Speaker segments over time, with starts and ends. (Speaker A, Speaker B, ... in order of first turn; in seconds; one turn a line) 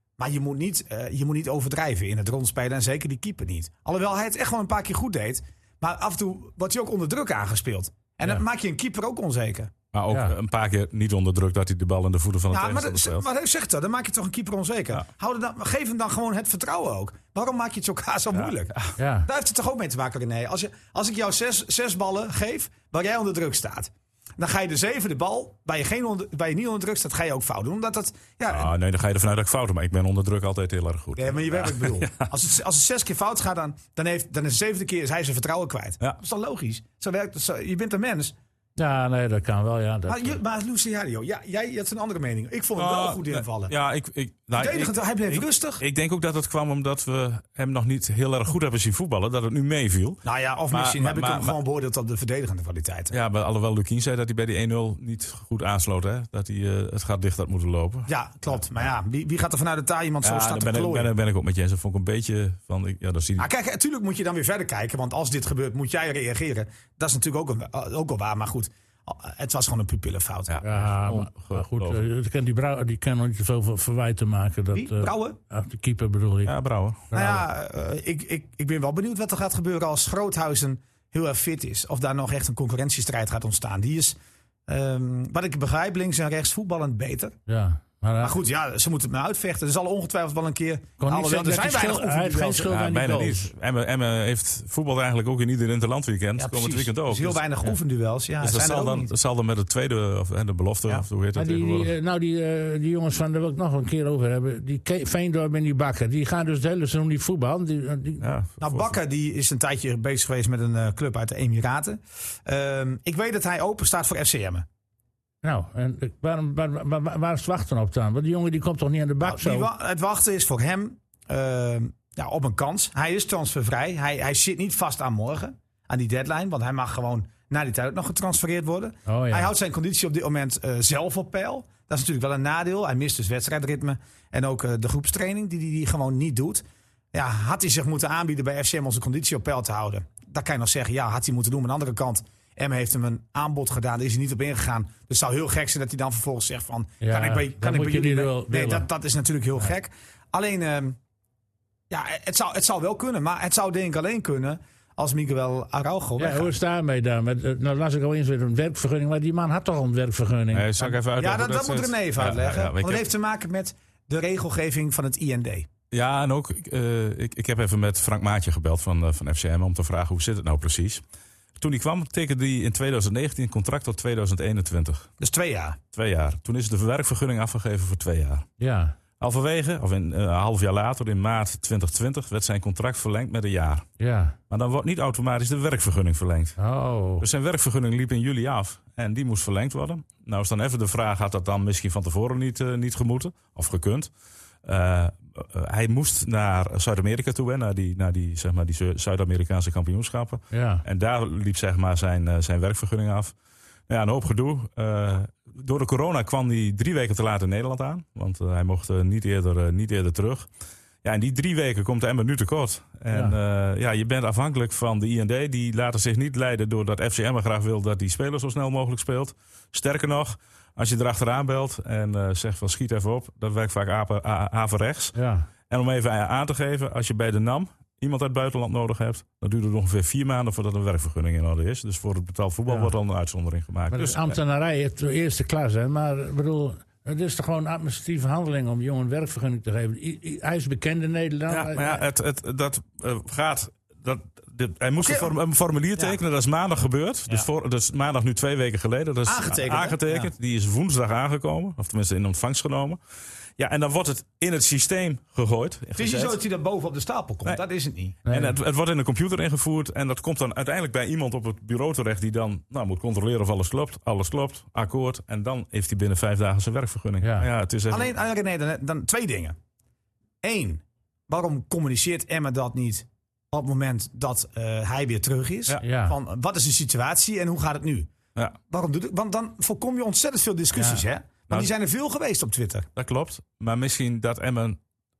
Speaker A: 0.2-9.7
Speaker B: 9.9-13.2
Speaker A: 12.5-28.7
Speaker B: 18.3-18.9
Speaker C: 19.0-19.3
Speaker B: 28.5-32.3
Speaker A: 31.1-38.3
Speaker C: 38.8-40.4
Speaker A: 40.1-43.7
Speaker B: 42.8-51.5
Speaker A: 44.5-45.8
Speaker A: 50.2-53.1
Speaker B: 53.1-58.1
Speaker A: 58.1-61.1
Speaker B: 60.2-63.5
Speaker A: 63.4-70.6
Speaker B: 70.5-72.0
Speaker C: 70.6-76.5
Speaker A: 74.7-75.4
Speaker B: 76.4-77.0
Speaker C: 77.1-77.4
Speaker A: 77.1-84.2
Speaker A: 84.7-87.3
Speaker C: 87.5-88.4
Speaker A: 88.2-92.7
Speaker C: 91.0-93.5
Speaker B: 92.7-97.4
Speaker A: 96.4-99.1
Speaker B: 98.4-101.9
Speaker C: 101.3-108.2
Speaker B: 108.2-109.0
Speaker A: 108.6-114.6
Speaker C: 115.4-119.7
Speaker A: 119.2-151.0
Speaker C: 129.1-129.5
Speaker C: 147.0-148.9
Speaker A: 151.9-156.5
Speaker C: 156.2-160.9
Speaker B: 160.5-163.1
Speaker A: 161.2-165.7
Speaker B: 165.9-171.0
Speaker B: 171.6-175.1
Speaker A: 175.2-175.8
Speaker B: 175.9-178.4
Speaker C: 178.6-178.9
Speaker B: 179.2-183.9
Speaker C: 184.0-184.4
Speaker B: 184.5-186.6
Speaker C: 186.6-187.2
Speaker B: 187.2-194.1
Speaker B: 194.6-203.3
Speaker C: 200.5-200.8
Speaker B: 203.9-210.5
Speaker B: 211.0-225.1
Speaker C: 225.1-225.5
Speaker B: 225.7-234.4
Speaker C: 233.9-242.0
Speaker B: 241.5-253.0
Speaker A: 245.0-245.3
Speaker A: 249.2-250.3
Speaker B: 253.6-256.4
Speaker A: 255.9-258.2
Speaker C: 258.2-258.5
Speaker B: 258.2-268.1
Speaker C: 267.2-267.5
Speaker A: 267.9-269.6
Speaker A: 270.4-278.1
Speaker C: 275.8-276.2
Speaker A: 278.7-282.9
Speaker C: 280.8-281.0
Speaker B: 282.9-284.8